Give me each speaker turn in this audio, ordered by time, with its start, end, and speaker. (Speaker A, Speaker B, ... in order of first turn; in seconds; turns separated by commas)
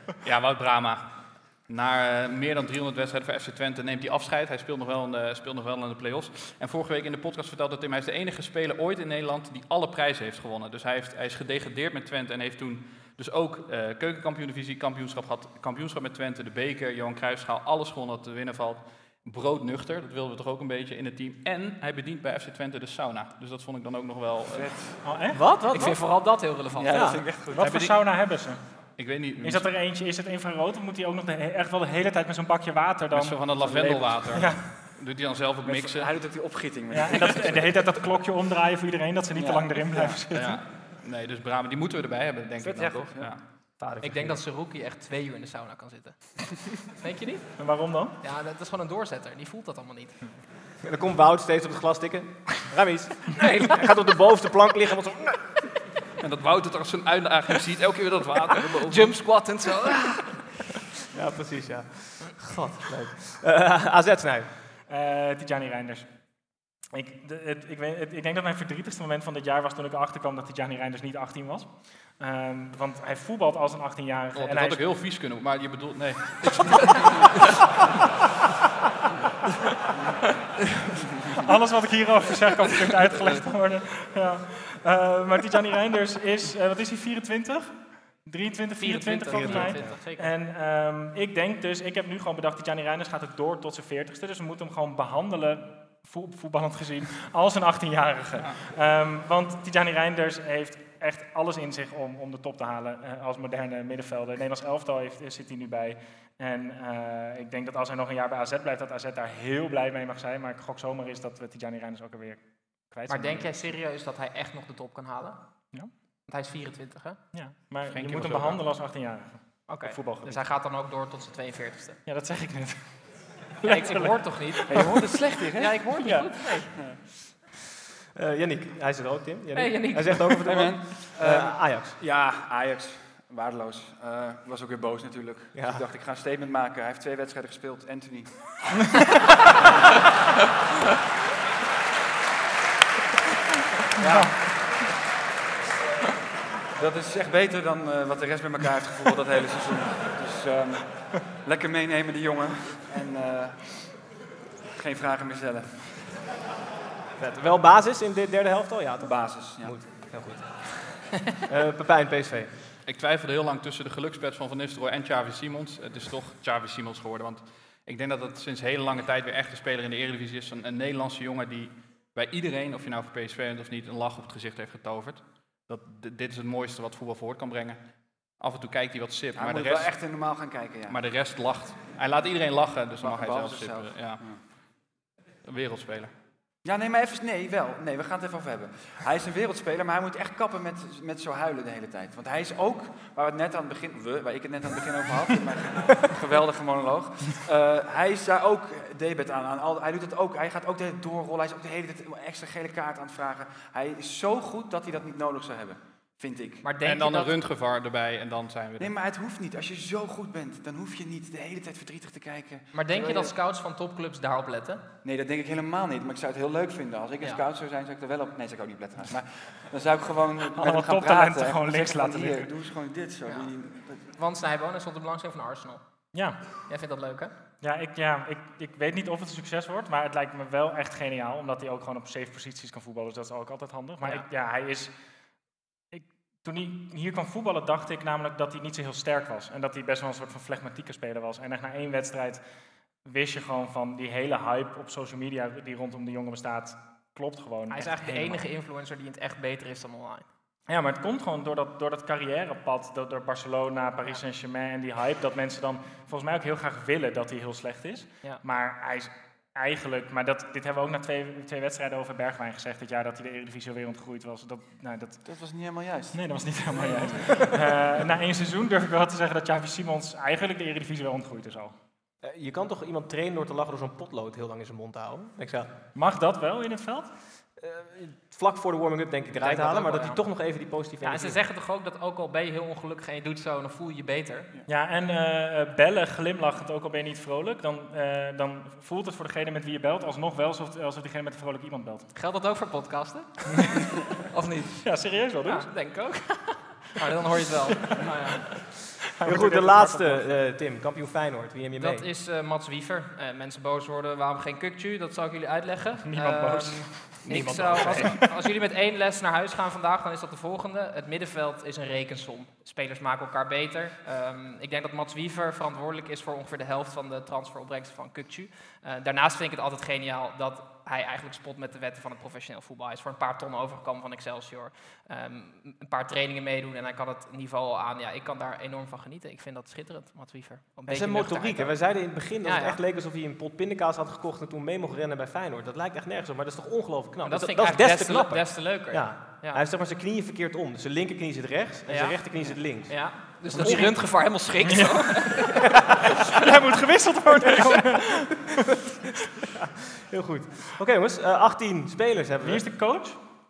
Speaker A: 0.2-24.9, Speaker B: 24.5-25.0, Speaker C: 25.0-25.9, Speaker D: 25.3-27.2, Speaker E: 25.7-27.2, Speaker B: 26.8-27.8, Speaker C: 27.5-33.6, Speaker A: 27.6-29.7, Speaker A: 33.1-36.1, Speaker B: 33.6-34.2, Speaker C: 34.2-34.9, Speaker B: 35.6-38.1, Speaker C: 36.9-40.6, Speaker B: 39.3-40.2, Speaker A: 40.3-43.4, Speaker E: 42.7-50.3, Speaker B: 42.8-43.3, Speaker D: 43.8-44.4, Speaker C: 47.6-48.1, Speaker D: 50.8-55.7, Speaker A: 56.2-59.1, Speaker E: 58.9-60.5, Speaker D: 61.1-64.5, Speaker C: 64.9-66.3, Speaker C: 66.9-75.0, Speaker A: 74.3-77.6, Speaker C: 81.3-113.7, Speaker E: 88.8-90.3, Speaker D: 89.3-90.0, Speaker E: 113.1-117.2, Speaker C: 117.3-120.5, Speaker A: 117.9-118.6, Speaker E: 119.7-122.0, Speaker C: 122.1-125.0, Speaker E: 123.6-125.0, Speaker B: 124.7-125.9, Speaker E: 125.6-126.7, Speaker C: 126.0-126.6, Speaker D: 128.2-132.0, Speaker E: 129.5-130.8, Speaker B: 130.4-139.5, Speaker D: 135.5-135.9, Speaker B: 144.0-144.6, Speaker C: 144.0-144.5, Speaker B: 146.8-154.1, Speaker B: 154.8-156.0, Speaker D: 157.2-162.5, Speaker B: 159.0-159.8, Speaker A: 162.9-180.1, Speaker B: 179.3-181.0, Speaker A: 180.9-184.6, Speaker B: 183.0-184.4, Speaker A: 185.4-186.1, Speaker B: 186.6-206.7, Speaker E: 206.6-207.3, Speaker A: 206.8-208.9, Speaker B: 208.8-213.3, Speaker E: 212.7-214.8, Speaker B: 215.0-224.1, Speaker C: 220.6-222.5, Speaker E: 223.3-225.8, Speaker C: 226.1-226.4, Speaker E: 226.5-227.3, Speaker C: 227.6-235.0, Speaker E: 234.0-234.3, Speaker C: 235.9-242.5, Speaker C: 243.0-248.4, Speaker E: 247.7-250.2, Speaker C: 250.7-265.2, Speaker B: 265.2-267.4, Speaker C: 266.1-271.8, Speaker D: 272.2-275.7, Speaker C: 275.9-277.1, Speaker D: 277.6-281.4, Speaker E: 279.4-280.2, Speaker E: 281.0-284.5, Speaker C: 284.7-292.1, Speaker E: 292.1-298.5, Speaker C: 294.8-295.7, Speaker C: 299.2-300.4, Speaker D: 299.2-302.1, Speaker E: 301.8-332.8, Speaker C: 306.0-308.4, Speaker D: 307.2-308.2, Speaker D: 330.9-343.8, Speaker E: 337.2-339.6, Speaker E: 341.9-345.8, Speaker C: 343.6-345.5, Speaker C: 346.4-348.5, Speaker D: 350.1-352.7, Speaker C: 352.4-353.2